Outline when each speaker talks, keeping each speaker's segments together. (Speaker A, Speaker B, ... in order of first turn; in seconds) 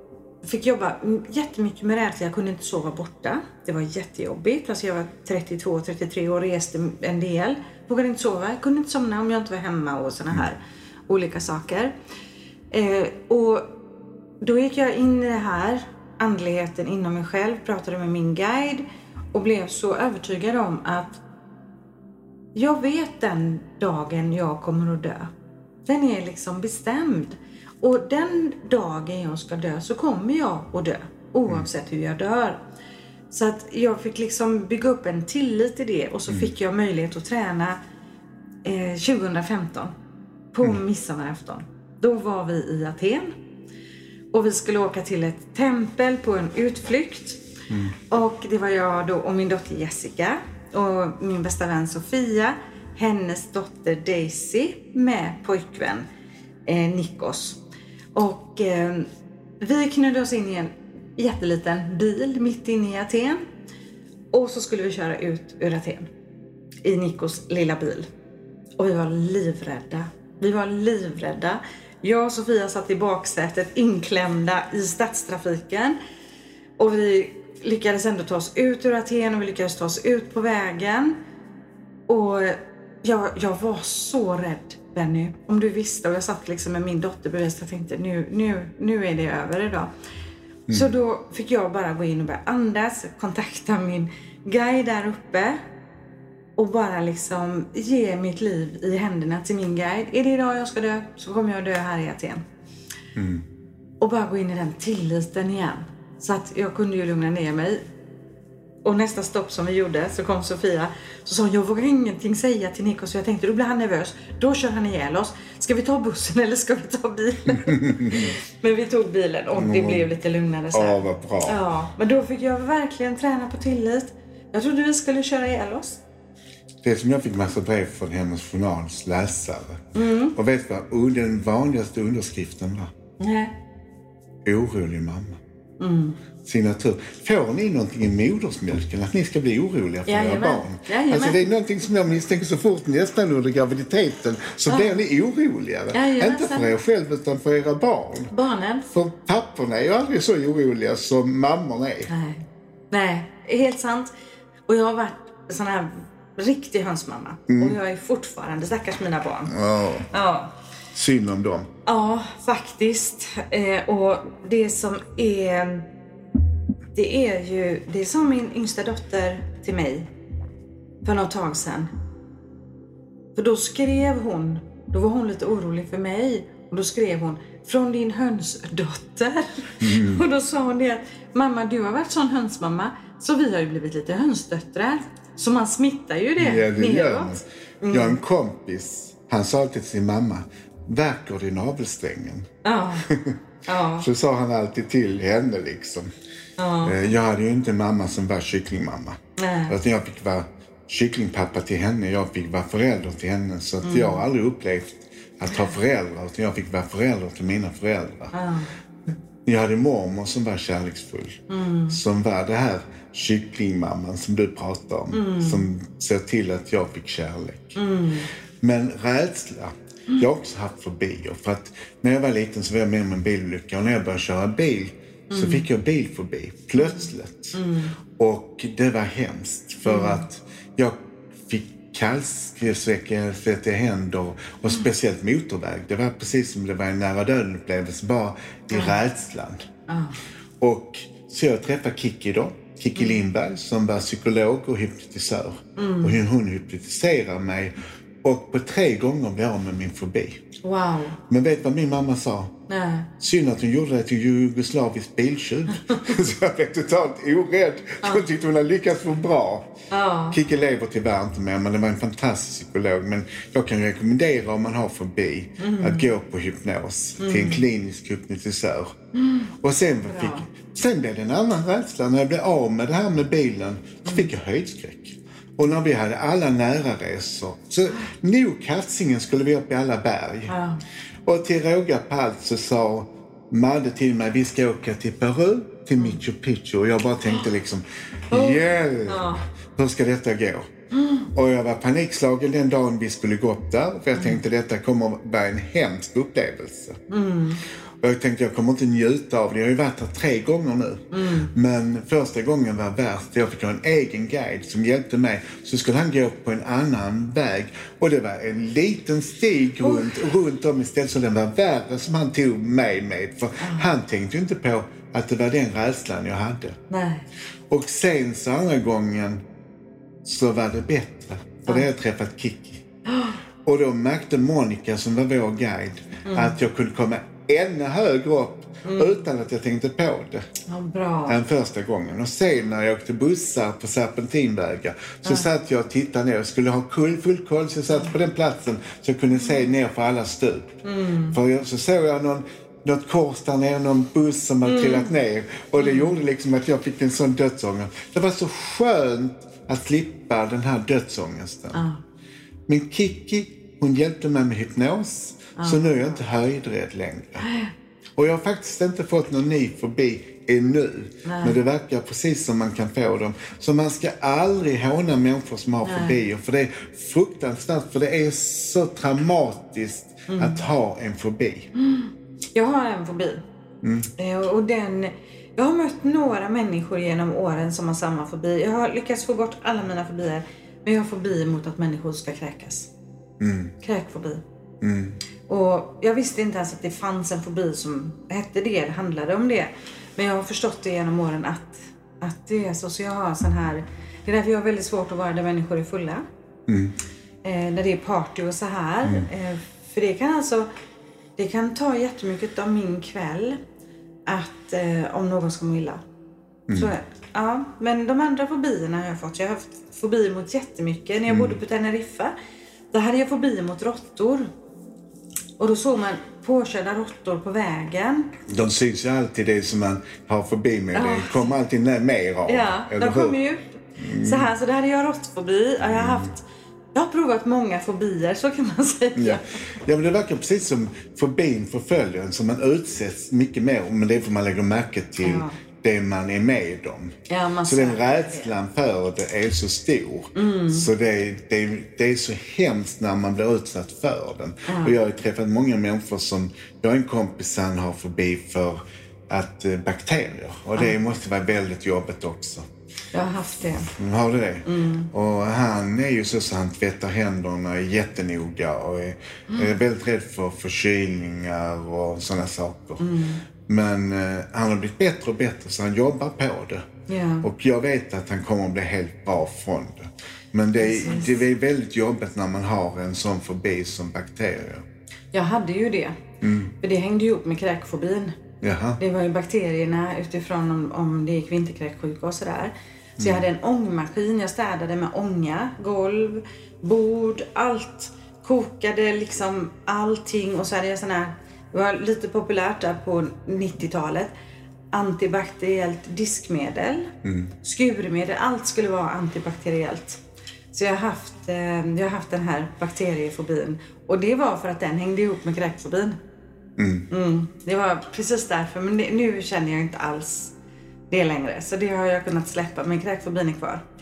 Speaker A: 0.4-11.9, 12.7-13.7, 14.4-21.2, 22.5-25.3, 25.9-32.6, 33.3-37.8, 38.6-39.9, 40.5-43.4, 44.3-47.4, 48.0-56.0, 56.6-57.6, 58.1-59.1, 59.6-63.5, 64.3-66.1, 66.8-68.1, 68.8-76.0, 76.8-81.2, 82.1-89.9, 90.7-95.6, 96.6-102.4, 104.0-107.8, 108.8-126.0, 129.9-130.3, 133.2-133.5, 135.8-136.2, 140.1-141.4, 144.7-145.0, 145.9-146.7, 148.3-148.9, 152.1-154.1, 154.7-159.5, 160.1-160.5, 161.8-165.9, 166.9-170.1, 171.0-171.9, 173.3-188.2, 192.6-193.1, 193.6-194.1, 196.6-197.1, 199.4-199.8, 203.8-204.2, 208.3-208.7, 211.5-212.0, 215.1-215.7, 217.8-218.3, 225.3-225.7, 226.8-228.0, 229.8-230.2, 238.7-239.0, 239.9-240.2, 242.9-243.2, 245.8-246.2, 250.6-251.2, 252.7-253.1, 259.9-260.4, 265.6-266.1, 267.2-267.7, 269.2-269.5, 270.1-270.4, 274.0-274.3, 280.5-280.8, 288.3-289.4, 290.9-291.2, 297.1-297.6, 301.1-301.5, 313.6-313.9, 316.9-317.3, 321.6-321.9, 323.1-323.4, 326.2-326.6, 328.8-329.1, 330.7-331.4, 335.2-335.5, 340.8-341.4, 344.6-345.1, 345.8-346.1, 351.7-352.0, 355.6-356.2, 357.4-357.7, 361.2-361.6, 365.8-366.2, 370.3-370.6, 371.7-373.5, 374.2-382.9, 383.8-384.4, 385.5-396.2, 397.4-400.7, 401.4-403.6, 404.3-406.0, 406.7-412.3, 412.9-414.5, 415.6-418.4, 420.9-421.5, 422.4-426.4, 426.9-429.4, 435.2-435.6, 437.3-438.5, 440.3-440.9, 444.7-444.9, 453.1-453.9, 454.6-455.1, 463.0-463.4, 467.1-467.5, 470.8-471.4, 475.3-476.2, 476.8-478.4, 479.0-494.3, 494.9-500.2, 500.7-506.2, 507.1-510.5, 511.1-513.8
Speaker B: 47.7-47.9, 103.2-103.4, 117.6-118.3, 119.5-120.1, 120.7-121.6, 126.8-132.9, 134.4-135.4, 136.4-148.3, 148.9-152.1, 157.5-157.8, 159.5-160.1, 160.9-161.7, 179.8-180.2, 186.4-193.4, 194.0-196.1, 196.8-208.3, 209.4-217.8, 218.6-227.6, 228.2-239.7, 240.6-250.4, 251.3-252.5, 253.2-259.7, 260.3-268.9, 269.6-280.5, 281.2-290.7, 291.3-297.0, 298.0-316.8, 317.7-319.4, 320.2-322.8, 323.6-330.5, 331.3-340.8, 341.3-351.8, 352.7-357.5, 358.1-371.7, 373.8-374.1, 383.4-383.7, 384.8-385.2, 396.7-397.0, 406.7-406.9, 411.3-411.6, 418.5-423.4, 424.0-424.5, 425.8-426.3, 429.1-452.7, 453.9-463.0, 463.7-466.9, 467.4-474.8, 476.4-476.7, 478.6-479.0, 483.2-483.4, 497.2-497.5, 506.8-507.1